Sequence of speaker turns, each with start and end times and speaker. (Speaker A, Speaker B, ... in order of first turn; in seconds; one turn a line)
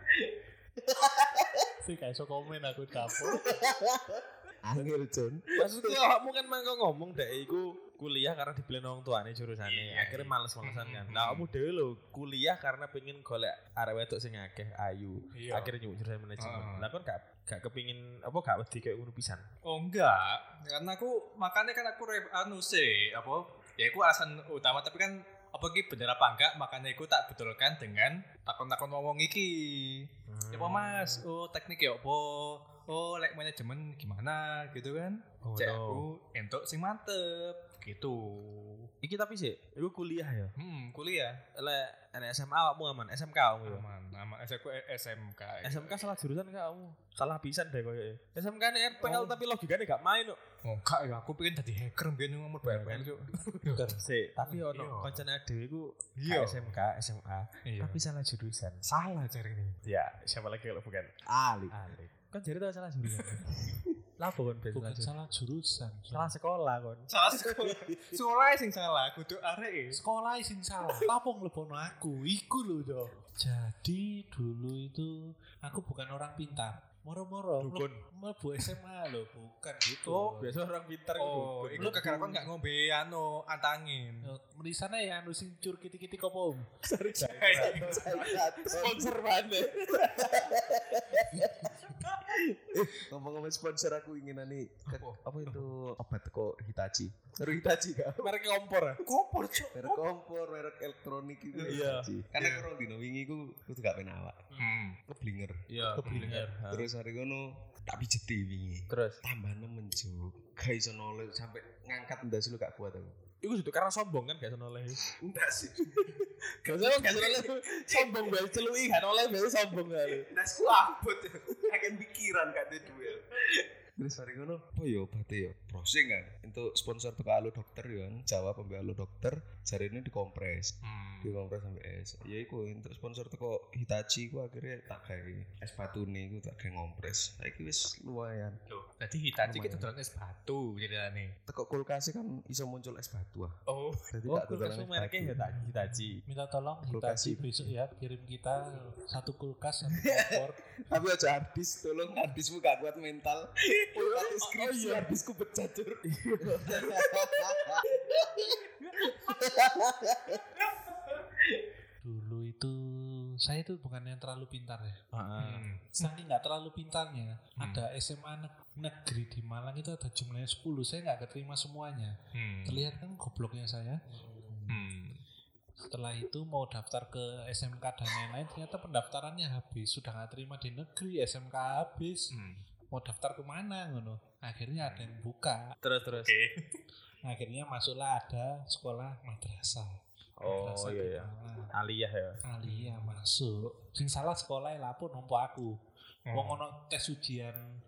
Speaker A: 0.8-1.7
Speaker B: 1.8-3.5
Speaker A: 3.0-6.1
Speaker C: 5.6-19.5
Speaker D: 9.6-11.5
Speaker D: 15.3-15.7
Speaker D: 16.4-16.9
Speaker D: 19.6-38.9
Speaker C: 30.3-31.2
Speaker C: 35.5-36.1
Speaker C: 39.0-40.5
Speaker D: 40.6-41.4
Speaker C: 41.5-43.8
Speaker D: 43.6-46.0
Speaker C: 45.6-50.4
Speaker D: 49.0-49.4
Speaker D: 50.6-55.3
Speaker C: 52.6-58.9
Speaker D: 56.2-56.8
Speaker D: 57.6-58.0
Speaker D: 58.8-59.8
Speaker C: 59.8-61.2
Speaker A: 61.2-61.7
Speaker C: 61.7-65.1
Speaker B: 64.7-66.3
Speaker C: 66.1-67.1
Speaker D: 67.1-70.0
Speaker A: 67.3-68.2
Speaker B: 69.9-80.5
Speaker C: 77.6-78.0
Speaker C: 80.0-82.4
Speaker D: 81.2-84.3
Speaker A: 81.8-82.5
Speaker B: 84.2-86.7
Speaker C: 86.9-90.8
Speaker D: 86.9-88.9
Speaker A: 87.5-98.3
Speaker D: 91.9-92.2
Speaker D: 94.9-95.6
Speaker C: 98.2-99.0
Speaker D: 99.0-100.0
Speaker B: 99.2-99.7
Speaker A: 99.7-104.5
Speaker D: 101.5-102.7
Speaker C: 101.6-102.1
Speaker D: 104.5-105.0
Speaker A: 105.1-105.6
Speaker C: 105.7-106.9
Speaker B: 105.9-106.5
Speaker D: 106.0-106.4
Speaker A: 106.2-113.2
Speaker C: 108.9-109.2
Speaker C: 113.4-115.1
Speaker A: 115.0-118.6
Speaker C: 116.0-120.3
Speaker A: 120.0-138.6
Speaker D: 130.8-131.4
Speaker D: 138.7-141.3
Speaker A: 139.4-139.9
Speaker A: 141.5-143.6
Speaker D: 143.7-144.1
Speaker A: 144.1-145.5
Speaker C: 144.2-146.2
Speaker B: 146.2-150.6
Speaker A: 146.8-147.7
Speaker A: 149.9-160.6
Speaker C: 153.9-155.2
Speaker C: 156.1-157.7
Speaker B: 162.0-165.0
Speaker C: 165.1-165.7
Speaker D: 165.4-165.9
Speaker B: 165.9-174.0
Speaker D: 167.6-167.8
Speaker D: 172.3-172.9
Speaker D: 174.7-175.2
Speaker B: 175.8-182.3
Speaker D: 182.3-182.6
Speaker B: 182.9-185.7
Speaker C: 185.8-186.3
Speaker D: 186.1-186.8
Speaker B: 187.2-191.7
Speaker C: 190.4-192.4
Speaker B: 192.4-195.8
Speaker D: 192.6-193.2
Speaker D: 196.3-196.6
Speaker B: 196.3-197.6